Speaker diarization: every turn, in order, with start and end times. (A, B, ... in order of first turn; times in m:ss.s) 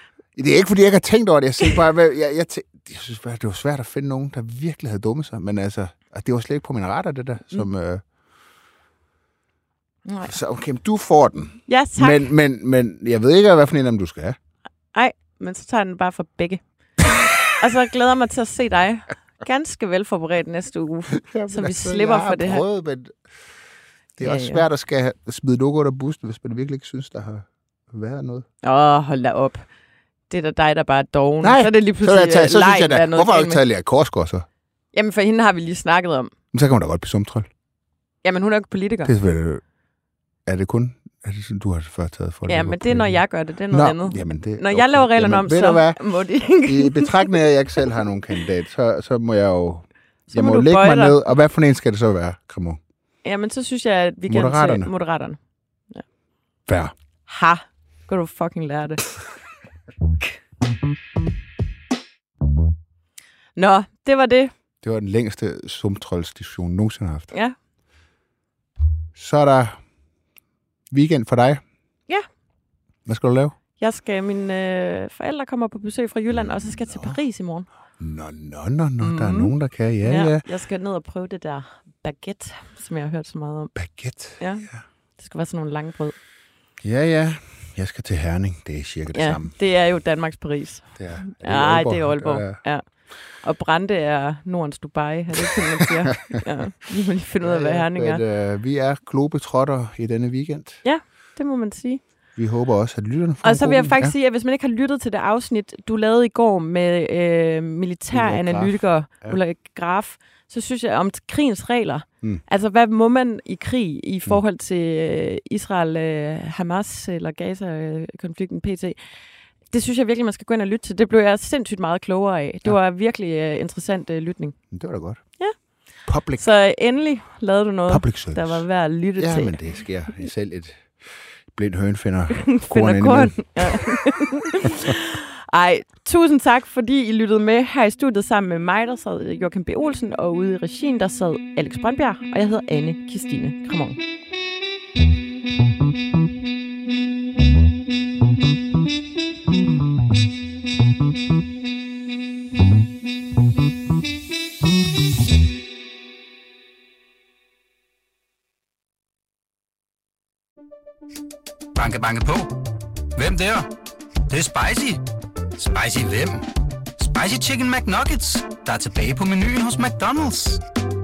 0:00.4-0:08.0 A
0:10.1-0:10.4 B
0:10.2-0:14.4 A
0:11.7-0:12.3 B
0:14.9-0:16.6 B
0:17.4-0:22.6 B
0:21.2-0:23.2 A
0:24.2-0:28.5 A
0:24.2-0:24.6 B
0:28.6-0:29.7 B
0:30.3-0:33.6 B
0:31.4-0:34.5 A
0:34.9-0:36.3 B
0:36.5-0:37.5 A
0:38.2-0:39.1 B
0:39.0-0:39.6 A
0:40.5-0:46.0 A
0:42.5-0:47.3 B
0:46.6-0:52.8 A
0:50.3-0:51.2 B
0:53.2-0:55.4 B
0:54.3-0:54.9 A
0:56.7-0:56.9 A
0:57.3-0:59.0 B
1:03.6-1:04.5 B
1:04.8-1:07.3 A
1:09.2-1:09.8 A
1:10.9-1:11.6 A
1:13.1-1:13.6 A
1:13.8-1:17.7 B
1:16.7-1:17.2 A
1:18.0-1:20.4 A
1:19.0-1:19.5 B
1:20.0-1:23.8 B
1:23.8-1:24.8 A
1:24.4-1:26.2 B
1:26.8-1:29.5 A
1:29.1-1:32.9 B
1:31.0-1:32.6 A
1:33.4-1:38.2 B
1:37.4-1:40.8 A
1:40.8-1:42.0 B
1:42.4-1:44.1 A
1:43.4-1:59.0 B
1:48.1-1:49.4 A
1:59.7-2:04.6 B
2:04.7-2:05.3 A
2:06.0-2:06.5 A
2:06.4-2:09.6 B
2:07.9-2:10.9 A
2:11.5-2:14.0 A
2:12.4-2:24.0 B
2:14.6-2:14.9 A
2:41.8-2:42.5 C
2:43.2-2:43.7 C
2:44.3-2:45.0 C
2:45.6-2:46.4 C
2:47.0-2:50.6 C